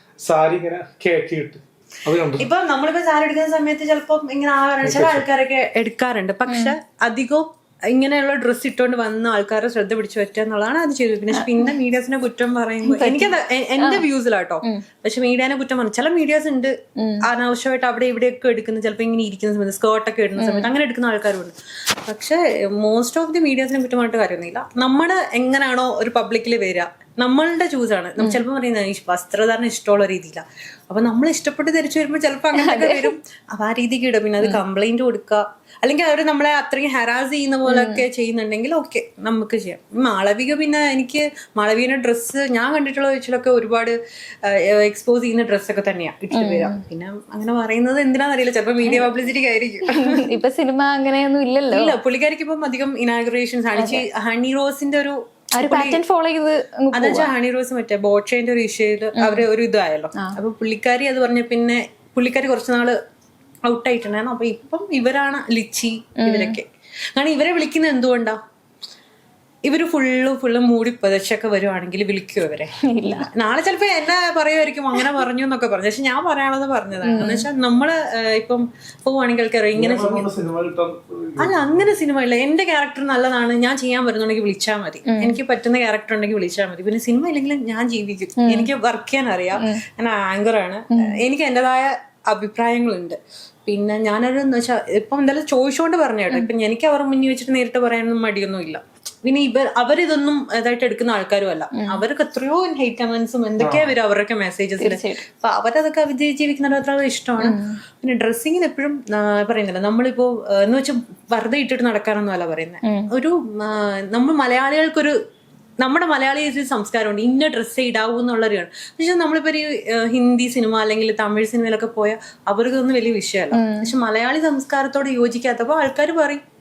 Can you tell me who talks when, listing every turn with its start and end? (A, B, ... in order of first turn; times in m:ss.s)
0:00.2-0:02.5 A
0:02.4-0:50.2 B
0:04.8-0:05.2 A
0:06.5-0:06.7 C
0:11.3-0:11.7 C
0:12.8-0:14.0 C
0:17.0-0:17.2 C
0:20.4-0:20.7 C
0:32.5-0:33.1 C
0:37.7-0:38.0 C
0:46.3-0:46.8 C
0:48.8-0:49.1 C
0:49.8-0:52.0 C
0:51.7-0:56.0 B
0:53.8-0:54.0 C
0:55.6-0:57.3 C
0:56.9-1:03.0 B
0:59.2-0:59.4 C
1:03.7-1:08.4 B
1:06.2-1:06.6 C
1:09.6-1:20.3 B
1:12.9-1:13.3 C
1:17.0-1:17.5 C
1:19.7-1:21.9 A
1:21.4-1:55.1 B
1:25.0-1:25.4 C
1:28.4-1:28.7 C
1:30.9-1:31.2 C
1:41.7-1:42.0 C
1:43.6-1:43.9 A
1:44.8-1:45.2 C
1:47.4-1:47.8 C
1:52.8-1:53.1 C
1:55.8-2:06.4 B
2:03.5-2:03.9 C